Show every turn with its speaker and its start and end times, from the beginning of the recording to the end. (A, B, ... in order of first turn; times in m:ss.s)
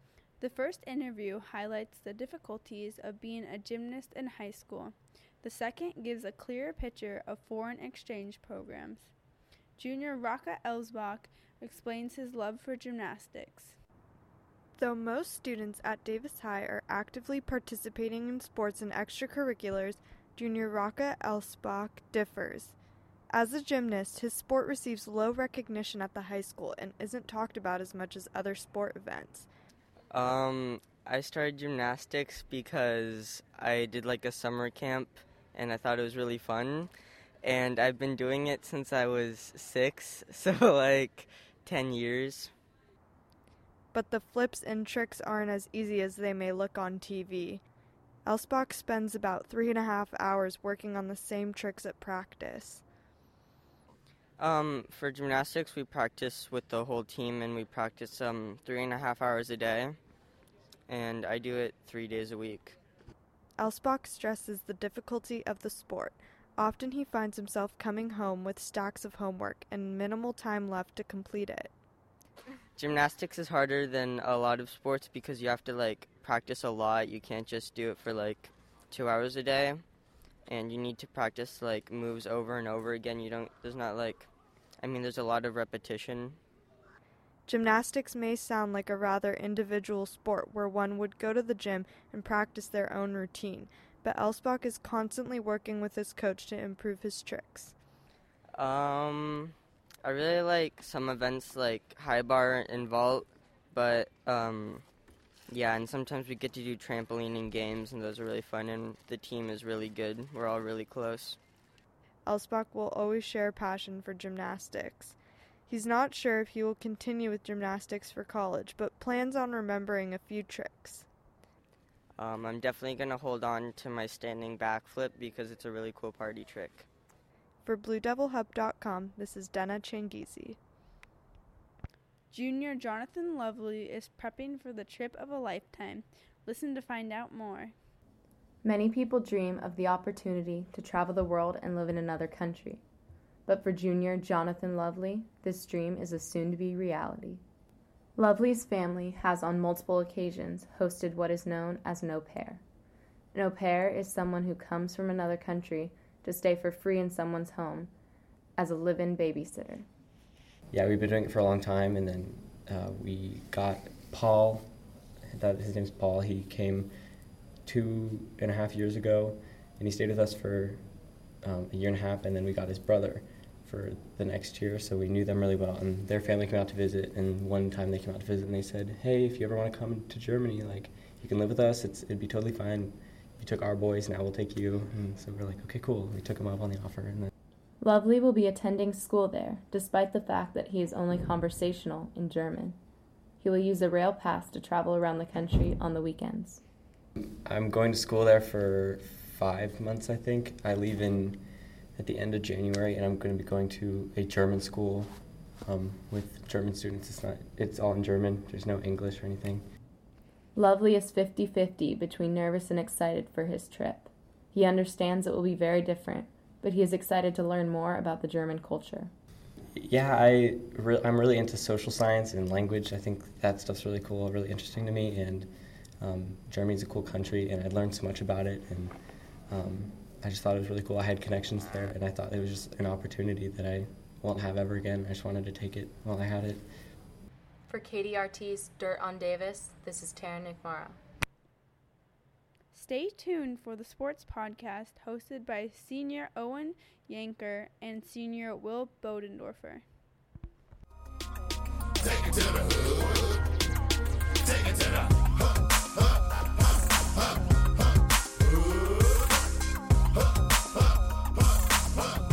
0:00.4-0:09.1 A
0:09.8-0:13.8 A
0:14.8-0:22.8 B
0:23.3-0:29.5 B
0:30.1-0:36.9 C
0:37.4-0:42.5 C
0:43.9-0:47.6 B
0:48.2-0:52.8 B
0:54.4-1:00.0 C
1:00.9-1:02.8 C
1:03.6-1:11.7 B
1:12.8-1:19.8 C
1:20.5-1:24.3 C
1:24.8-1:26.4 C
1:27.5-1:37.7 B
1:38.5-1:44.8 C
1:45.5-1:51.4 C
1:52.3-1:55.2 B
1:55.7-2:01.1 B
2:02.2-2:06.9 C
2:07.6-2:10.6 B
2:12.3-2:17.7 A
2:18.6-2:22.8 D
2:23.5-2:27.4 D
2:28.2-2:32.6 D
2:33.3-2:37.9 D
2:38.6-2:39.9 D
2:40.7-2:44.7 E
2:45.3-2:46.9 E
2:47.6-2:50.8 E
2:51.4-3:07.3 E
3:07.8-3:12.8 D
3:13.4-3:16.6 D
3:17.2-3:21.4 E
3:22.0-3:25.1 E
3:25.6-3:29.7 E
3:30.6-3:39.1 D
3:39.8-3:45.5 E
3:46.0-3:49.0 E
3:49.5-3:56.7 E
3:57.7-4:01.0 D
4:02.7-4:09.8 A